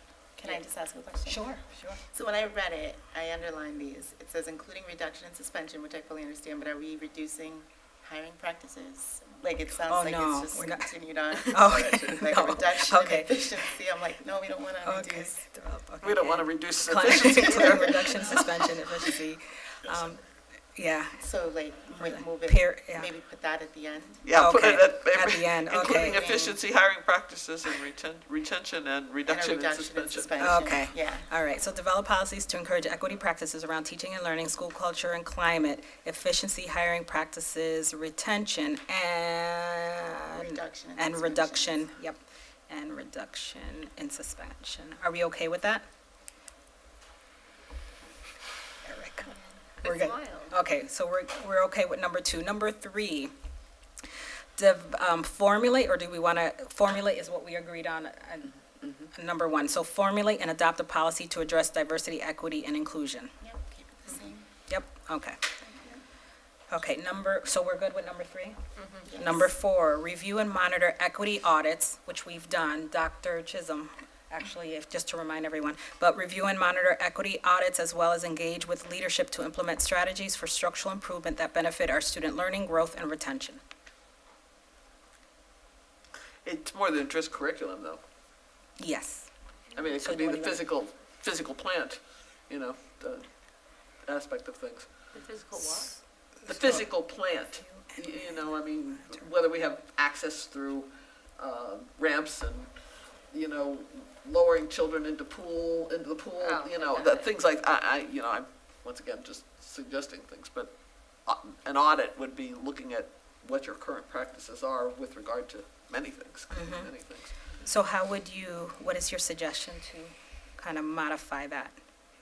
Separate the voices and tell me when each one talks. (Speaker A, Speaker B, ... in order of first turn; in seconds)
Speaker A: 0.4-15.4, 17.3-18.4, 21.2-24.2, 25.8-26.6, 29.2-31.3, 40.3-41.9, 49.2-49.6, 63.4-64.5, 65.6-66.0, 69.0-69.5
Speaker B: 1.3-1.7, 9.9-13.6, 14.8-20.2, 20.8-21.2, 22.0-23.1, 24.3-26.5, 30.4-45.8, 48.9-49.3, 49.8-53.3, 54.6-63.3, 64.7-65.4, 66.7-68.6, 69.2-83.6, 88.8-89.3, 89.9-90.6, 95.6-97.0, 97.6-99.3, 116.5-116.9, 117.6-121.8
Speaker C: 16.0-18.7, 24.2-30.5, 86.5-88.0, 89.8-93.3, 94.1-95.1, 96.5-102.7, 103.3-110.7, 111.3-117.3
Speaker D: 49.8-50.5, 68.8-69.1, 95.1-96.0, 106.4-107.3